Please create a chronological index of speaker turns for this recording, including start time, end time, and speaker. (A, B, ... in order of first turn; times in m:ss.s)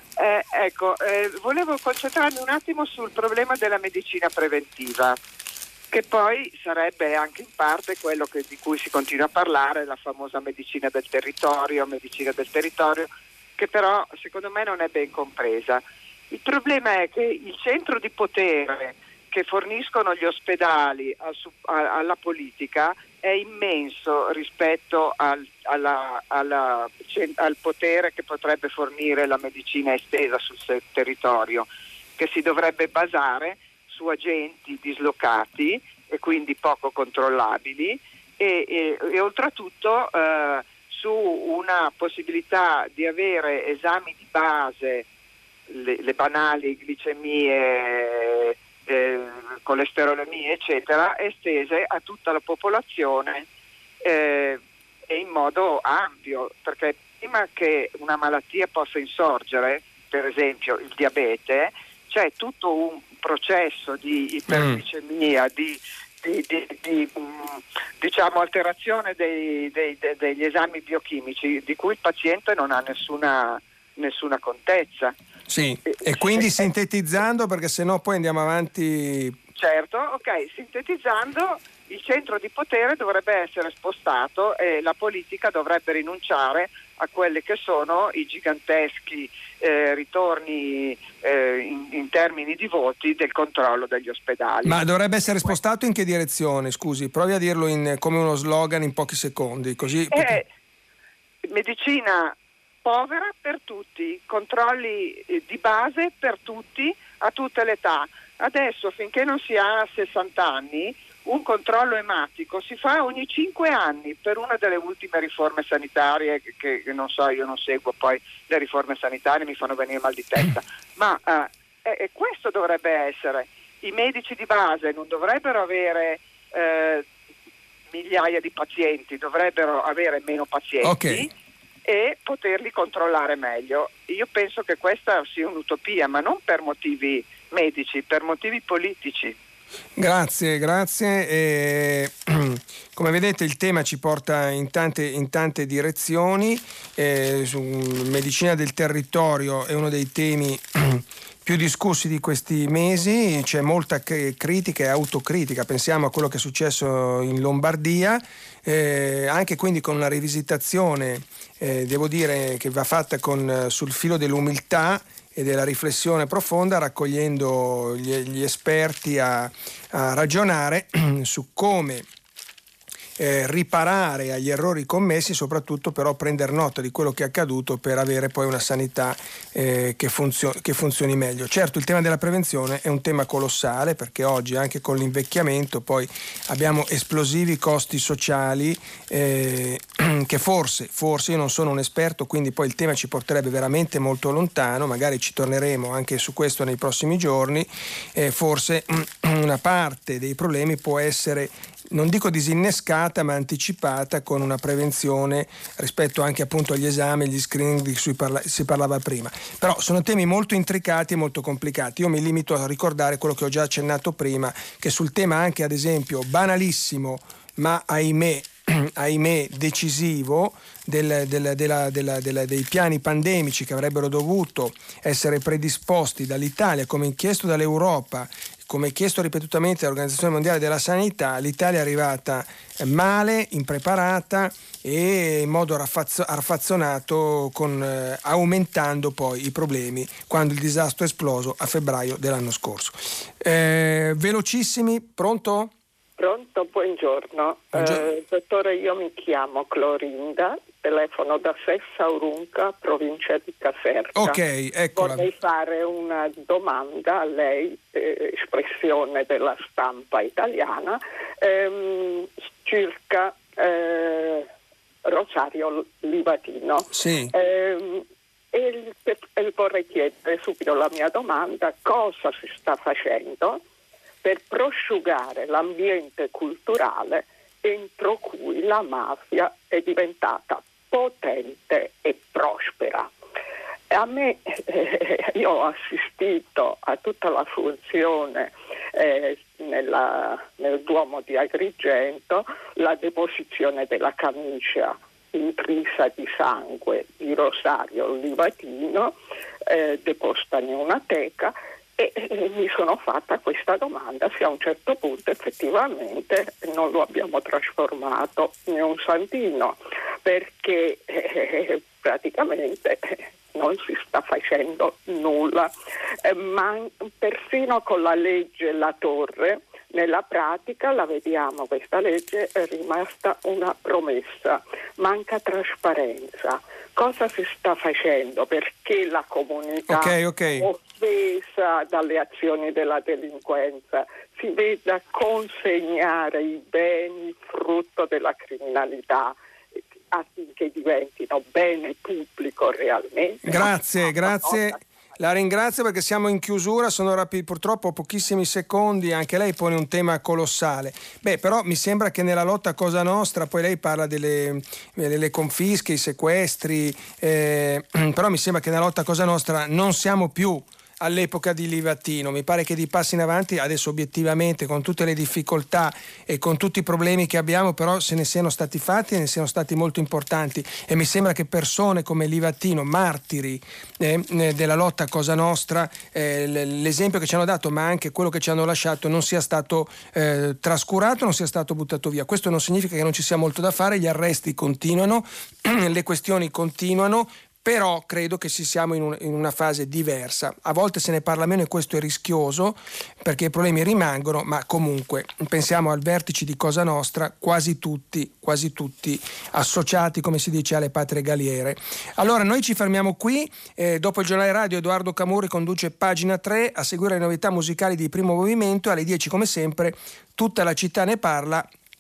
0:00.2-0:05.2 A
0:05.9-0:45.1 A
0:45.7-0:53.5 A
0:54.0-1:15.1 A
1:04.5-1:04.8 B
1:15.5-1:19.4 B
1:15.9-1:16.7 A
1:19.6-1:34.8 A
1:34.6-1:40.4 B
1:40.1-1:40.4 A
1:41.4-2:07.1 A
2:07.9-2:11.3 A
2:10.8-2:11.3 B
2:11.8-2:19.4 A
2:20.0-2:52.1 B
2:53.2-4:05.7 B
4:06.2-4:14.4 C
4:07.7-4:08.1 B
4:14.2-4:15.3 B
4:15.0-4:24.5 C
4:25.1-4:33.6 C
4:26.9-4:27.3 B
4:34.2-4:43.1 C
4:43.9-4:59.2 C
4:59.7-5:15.7 C
5:16.2-5:39.4 C
5:29.9-5:30.7 B
5:40.1-5:44.8 C
5:43.4-6:51.7 B